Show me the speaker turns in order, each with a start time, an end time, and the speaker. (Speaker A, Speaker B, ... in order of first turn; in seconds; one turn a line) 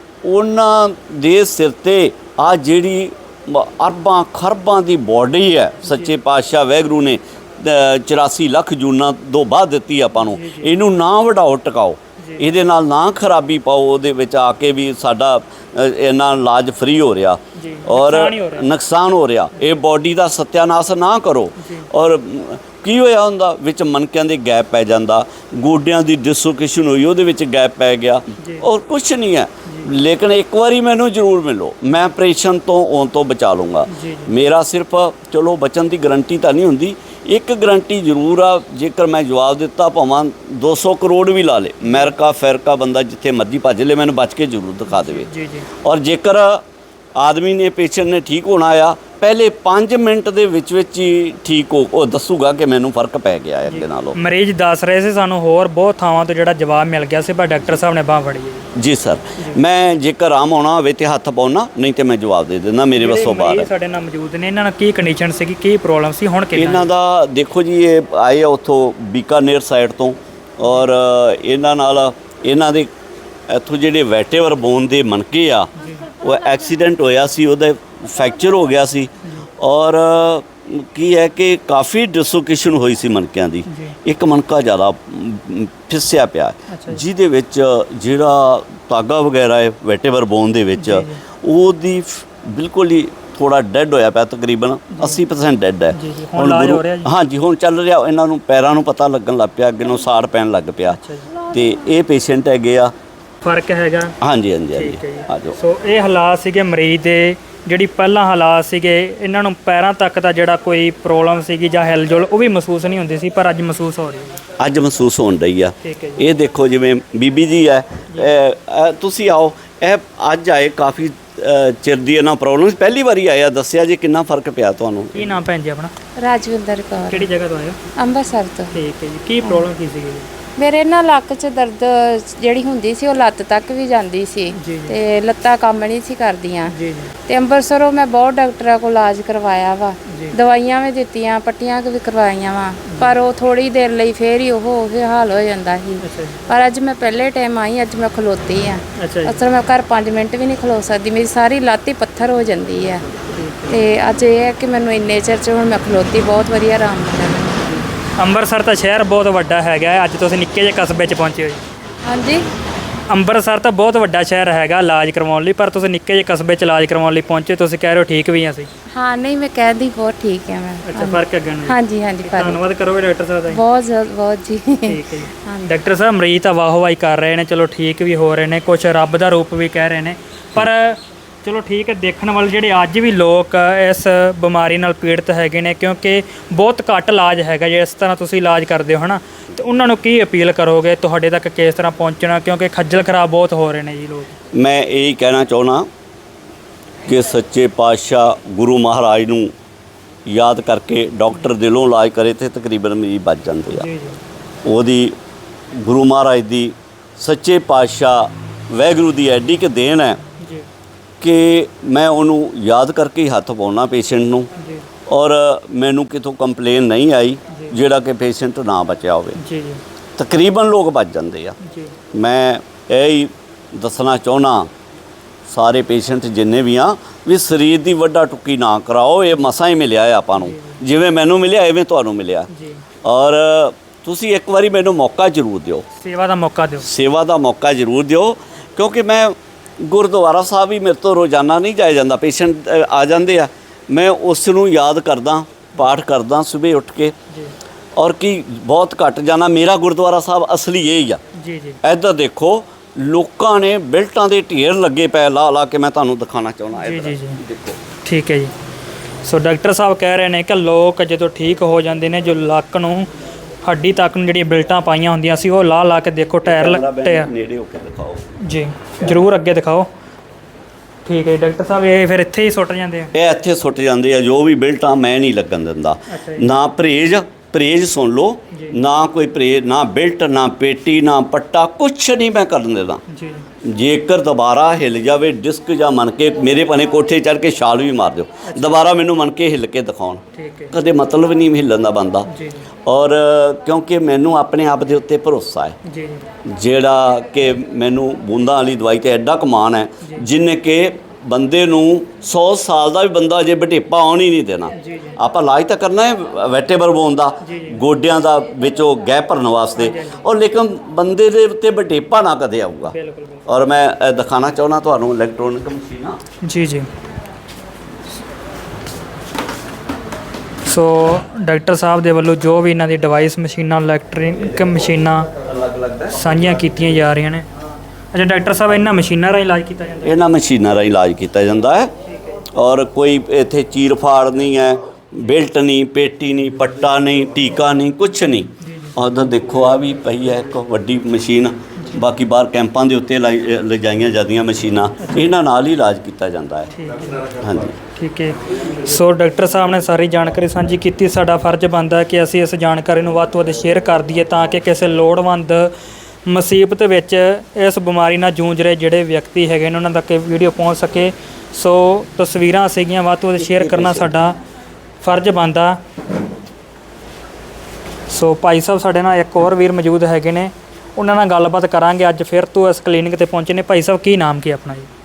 Speaker A: 0.2-45.3
Speaker B: 5.8-6.1
Speaker B: 10.2-10.8
Speaker B: 12.2-12.4
Speaker B: 17.5-18.7
Speaker B: 21.6-21.9
Speaker B: 28.4-28.7
Speaker B: 29.6-29.9
Speaker B: 33.9-34.3
Speaker B: 41.8-42.1
Speaker B: 44.9-45.7
Speaker A: 45.8-46.6
Speaker A: 47.2-54.2
Speaker B: 53.7-58.7
Speaker A: 58.8-63.7
Speaker B: 63.0-66.9
Speaker A: 66.5-72.9
Speaker B: 70.6-70.9
Speaker A: 73.5-75.7
Speaker B: 75.8-76.1
Speaker A: 76.2-102.9
Speaker B: 79.2-79.5
Speaker B: 83.7-84.0
Speaker B: 86.7-87.0
Speaker B: 90.8-91.2
Speaker B: 94.9-95.2
Speaker B: 95.9-97.1
Speaker B: 100.9-101.3
Speaker B: 103.4-104.2
Speaker A: 104.2-105.5
Speaker B: 104.7-114.4
Speaker A: 114.6-125.2
Speaker B: 115.8-116.2
Speaker B: 125.1-125.9
Speaker C: 126.2-127.3
Speaker B: 127.1-127.8
Speaker C: 128.0-128.8
Speaker B: 128.7-130.3
Speaker C: 130.6-136.7
Speaker B: 134.5-134.9
Speaker B: 136.7-137.1
Speaker C: 137.2-153.0
Speaker B: 140.1-140.3
Speaker B: 142.8-143.2
Speaker B: 146.0-146.4
Speaker B: 148.9-149.4
Speaker B: 153.3-153.8
Speaker C: 153.7-157.8
Speaker B: 158.2-161.6
Speaker C: 162.0-162.4
Speaker B: 163.1-168.7
Speaker C: 168.9-172.6
Speaker B: 170.8-173.6
Speaker C: 173.5-175.7
Speaker B: 174.8-194.3
Speaker A: 194.5-195.9
Speaker A: 197.1-199.5
Speaker A: 200.3-203.9
Speaker B: 203.7-204.2
Speaker A: 204.6-205.1
Speaker A: 205.7-210.2
Speaker B: 210.4-210.7
Speaker A: 211.2-214.5
Speaker B: 214.6-214.9
Speaker A: 215.1-219.4
Speaker B: 219.4-219.8
Speaker A: 220.2-221.6
Speaker B: 221.6-222.0
Speaker A: 222.1-224.7
Speaker A: 225.5-232.5
Speaker B: 230.3-230.8
Speaker B: 232.5-232.8
Speaker A: 233.0-235.8
Speaker B: 235.9-236.9
Speaker A: 236.8-247.1
Speaker B: 247.3-247.5
Speaker A: 248.0-251.2
Speaker B: 251.3-251.8
Speaker A: 251.8-257.8
Speaker B: 256.7-257.4
Speaker B: 258.0-258.5
Speaker B: 259.2-263.1
Speaker B: 263.6-267.3
Speaker A: 266.4-268.2
Speaker B: 268.4-269.9
Speaker B: 271.0-273.1
Speaker A: 273.1-283.0
Speaker B: 276.1-276.5
Speaker B: 278.5-278.8
Speaker B: 283.1-283.5
Speaker A: 283.6-290.2
Speaker B: 288.4-288.8
Speaker B: 290.3-290.7
Speaker A: 290.7-292.3
Speaker B: 292.3-292.6
Speaker A: 292.9-295.8
Speaker B: 295.8-296.2
Speaker A: 296.4-312.9
Speaker B: 300.0-300.3
Speaker B: 304.7-305.2
Speaker B: 307.4-307.8
Speaker B: 309.8-310.2
Speaker B: 312.9-313.4
Speaker A: 313.5-316.2
Speaker B: 316.4-316.9
Speaker B: 320.6-325.3
Speaker A: 325.4-326.3
Speaker B: 326.1-327.5
Speaker B: 328.1-330.2
Speaker A: 330.0-331.9
Speaker B: 332.0-332.4
Speaker A: 332.5-346.7
Speaker B: 338.6-338.9
Speaker B: 341.8-342.0
Speaker B: 345.0-345.3
Speaker B: 346.7-347.3
Speaker A: 347.4-347.8
Speaker B: 347.9-355.7
Speaker B: 356.2-364.4
Speaker B: 365.0-365.8
Speaker B: 368.1-374.9